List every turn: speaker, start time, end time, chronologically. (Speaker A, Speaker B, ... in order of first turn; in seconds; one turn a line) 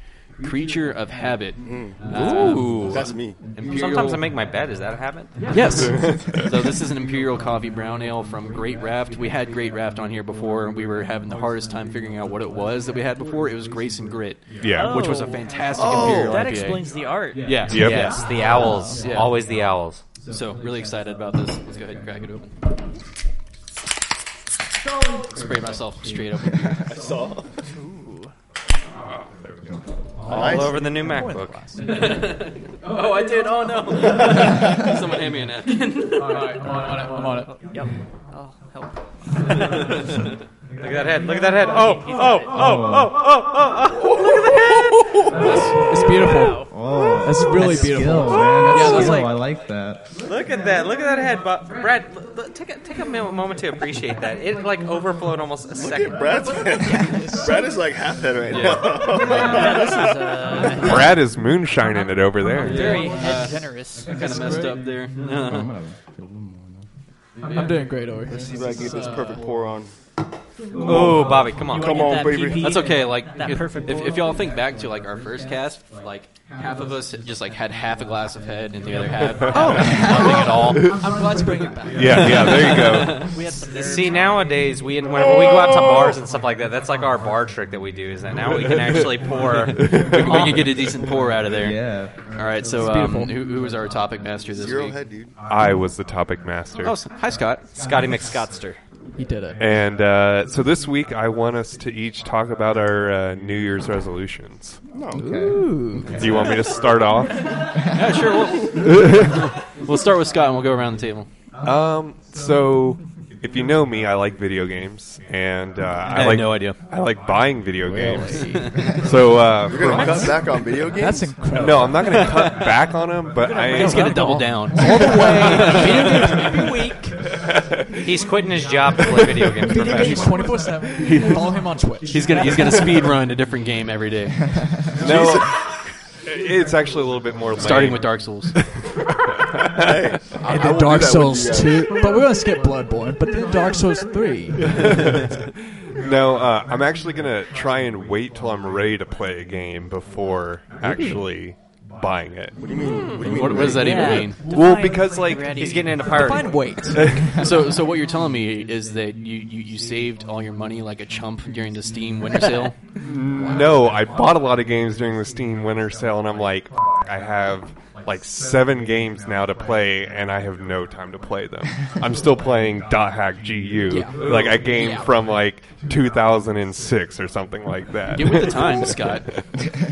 Speaker A: 0.4-4.3
Speaker B: 1.6-2.0
Speaker C: 2.1-2.8
Speaker D: 2.1-2.6
Speaker E: 2.4-2.9
Speaker B: 2.9-3.4
Speaker D: 3.6-5.4
Speaker F: 5.5-6.1
Speaker A: 5.5-19.5
Speaker E: 5.6-6.6
Speaker E: 14.6-15.0
Speaker G: 14.6-19.1
Speaker B: 15.8-16.4
Speaker E: 17.6-18.1
Speaker D: 17.7-20.0
Speaker A: 20.2-22.5
Speaker A: 25.2-26.9
Speaker B: 26.8-27.5
Speaker G: 27.6-28.3
Speaker E: 29.0-29.5
Speaker D: 30.2-31.6
Speaker B: 30.2-30.8
Speaker F: 30.3-32.0
Speaker A: 31.8-36.6
Speaker F: 36.3-37.5
Speaker G: 36.6-40.1
Speaker D: 40.8-45.8
Speaker G: 42.1-42.4
Speaker C: 42.5-43.1
Speaker A: 45.4-45.9
Speaker G: 45.4-46.7
Speaker F: 45.7-49.4
Speaker C: 46.6-50.1
Speaker G: 48.0-49.0
Speaker D: 50.2-56.7
Speaker B: 55.7-60.7
Speaker F: 56.8-57.8
Speaker A: 58.5-59.2
Speaker G: 58.9-61.2
Speaker E: 60.7-63.1
Speaker G: 62.5-64.5
Speaker A: 62.6-65.3
Speaker F: 64.1-64.8
Speaker D: 65.2-65.7
Speaker C: 65.4-66.8
Speaker F: 67.5-69.5
Speaker B: 68.2-69.9
Speaker B: 70.8-72.8
Speaker D: 70.8-72.1
Speaker G: 70.9-74.4
Speaker A: 72.5-81.1
Speaker E: 79.3-81.0
Speaker F: 79.5-82.6
Speaker G: 79.6-80.0
Speaker E: 81.9-83.4
Speaker A: 82.0-83.4
Speaker G: 82.6-84.5
Speaker D: 83.7-90.9
Speaker B: 85.3-86.1
Speaker E: 88.7-89.0
Speaker E: 89.7-90.5
Speaker A: 89.9-95.0
Speaker C: 91.4-92.2
Speaker F: 92.8-93.4
Speaker B: 94.5-95.4
Speaker E: 95.4-97.0
Speaker A: 96.8-97.7
Speaker D: 97.7-98.8
Speaker F: 99.2-99.6
Speaker E: 99.6-104.8
Speaker B: 104.9-105.3
Speaker C: 105.1-106.5
Speaker F: 105.1-106.4
Speaker E: 106.1-107.7
Speaker C: 107.8-108.2
Speaker A: 107.8-111.3
Speaker E: 108.7-109.5
Speaker E: 111.6-120.6
Speaker A: 116.1-116.8
Speaker F: 117.8-118.9
Speaker A: 118.4-119.0
Speaker B: 119.6-121.4
Speaker D: 119.9-120.2
Speaker F: 120.0-122.6
Speaker E: 121.4-124.4
Speaker F: 123.4-127.2
Speaker G: 123.5-124.3
Speaker A: 123.5-126.5
Speaker G: 124.9-125.7
Speaker E: 127.4-128.1
Speaker D: 128.0-130.6
Speaker E: 129.0-129.4
Speaker F: 129.6-132.5
Speaker A: 131.0-134.7
Speaker E: 134.9-140.2
Speaker B: 135.0-135.5
Speaker A: 137.6-138.6
Speaker B: 139.7-142.1
Speaker F: 140.4-144.8
Speaker E: 144.6-152.6
Speaker B: 152.6-154.1
Speaker D: 152.9-153.2
Speaker A: 153.1-154.5
Speaker G: 153.7-156.3
Speaker E: 154.2-155.7
Speaker D: 155.5-156.8
Speaker F: 156.0-157.4
Speaker E: 156.9-157.3
Speaker A: 157.3-162.8
Speaker E: 162.9-179.4
Speaker F: 163.4-163.8
Speaker F: 173.9-175.2
Speaker D: 174.2-174.5
Speaker A: 178.1-179.3